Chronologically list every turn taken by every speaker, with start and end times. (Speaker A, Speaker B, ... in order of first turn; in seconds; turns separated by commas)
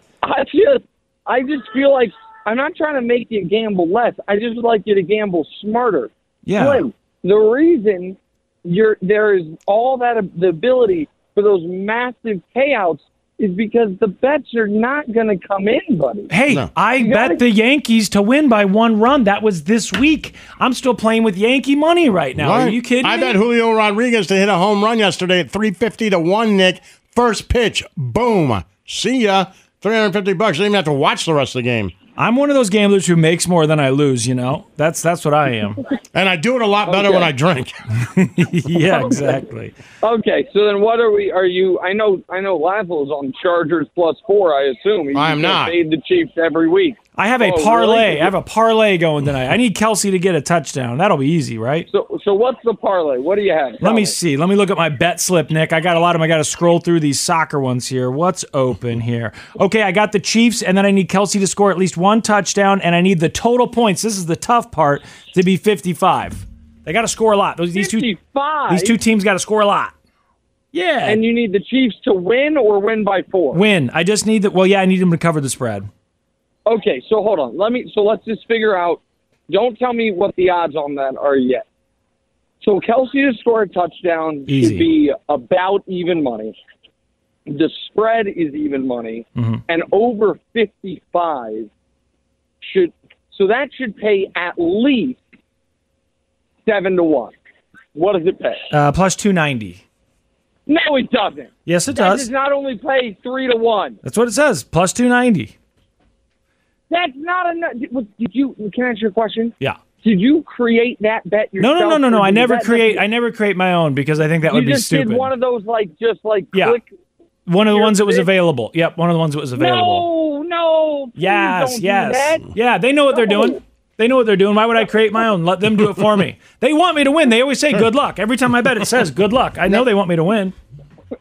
Speaker A: 0.2-16.3, Speaker B: 6.5-6.8, Speaker B: 16.3-23.4, Speaker A: 16.9-17.4, Speaker C: 22.4-31.9, Speaker B: 32.2-35.8, Speaker C: 36.1-37.8, Speaker A: 36.9-37.3, Speaker B: 38.0-39.7, Speaker A: 38.8-39.5, Speaker A: 40.0-48.3, Speaker C: 45.1-45.8, Speaker B: 47.2-51.9, Speaker A: 51.9-54.1, Speaker B: 53.8-68.1, Speaker A: 67.7-69.0, Speaker B: 68.7-69.9, Speaker B: 70.7-71.2, Speaker A: 71.0-73.6, Speaker B: 73.5-75.9, Speaker A: 76.7-81.6, Speaker A: 82.6-86.5, Speaker B: 84.5-84.9, Speaker A: 87.5-91.7, Speaker B: 89.3-89.6, Speaker A: 92.6-95.2, Speaker A: 96.7-97.3, Speaker A: 97.9-98.7, Speaker B: 98.7-99.8, Speaker A: 100.7-104.0, Speaker B: 101.6-102.3, Speaker B: 104.0-105.5, Speaker A: 106.9-113.0, Speaker B: 111.6-115.3, Speaker A: 114.5-116.9, Speaker B: 116.5-116.8, Speaker B: 117.5-120.1, Speaker A: 117.7-118.3, Speaker A: 119.6-122.5, Speaker B: 121.2-130.6, Speaker A: 123.1-123.6